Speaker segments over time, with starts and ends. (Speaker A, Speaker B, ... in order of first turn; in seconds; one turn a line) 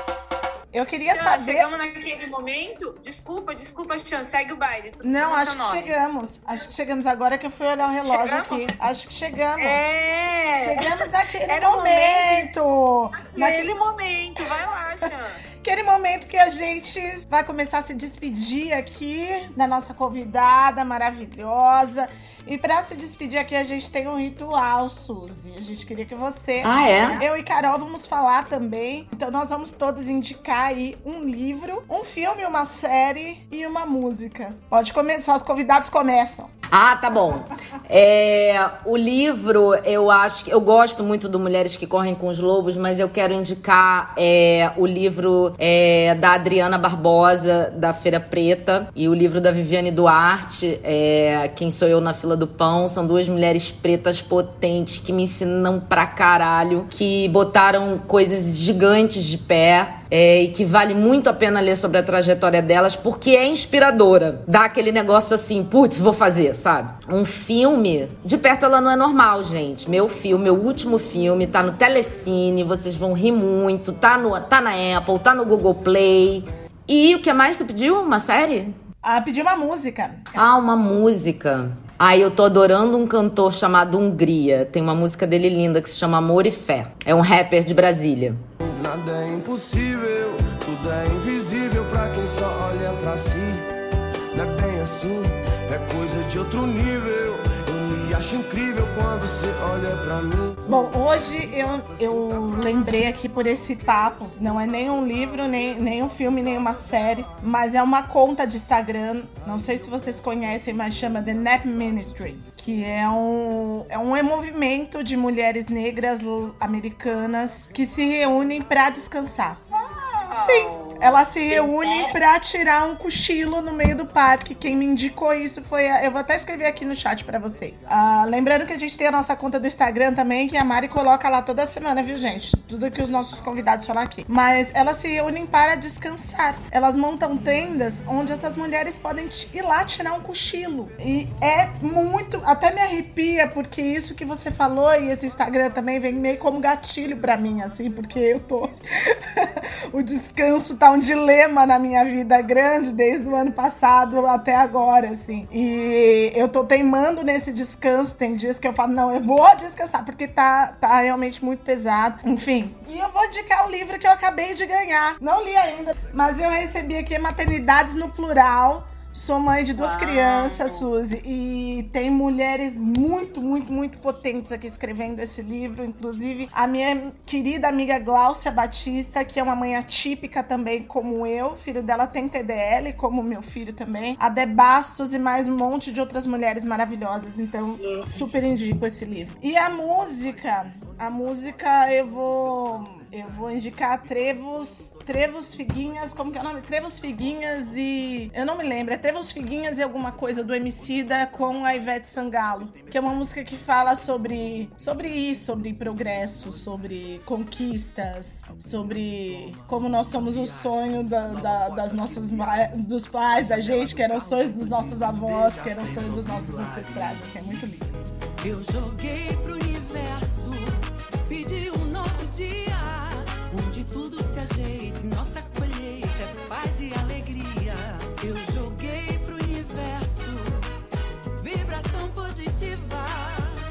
Speaker A: 0.7-1.7
Speaker B: 1.0-5.9
Speaker A: 5.0-10.0
Speaker B: 8.1-8.7
Speaker B: 9.6-10.8
Speaker A: 10.6-13.7
Speaker B: 11.5-12.5
Speaker B: 13.3-15.3
Speaker A: 15.6-36.5
Speaker C: 26.6-27.2
Speaker C: 36.7-78.7
Speaker A: 79.0-80.4
Speaker C: 80.4-88.4
Speaker D: 88.6-93.7
Speaker D: 94.3-100.8
Speaker A: 100.7-119.6
Speaker B: 120.2-120.5
Speaker A: 120.3-217.9
Speaker E: 208.8-212.7
Speaker E: 213.4-230.6
Speaker E: 231.4-233.6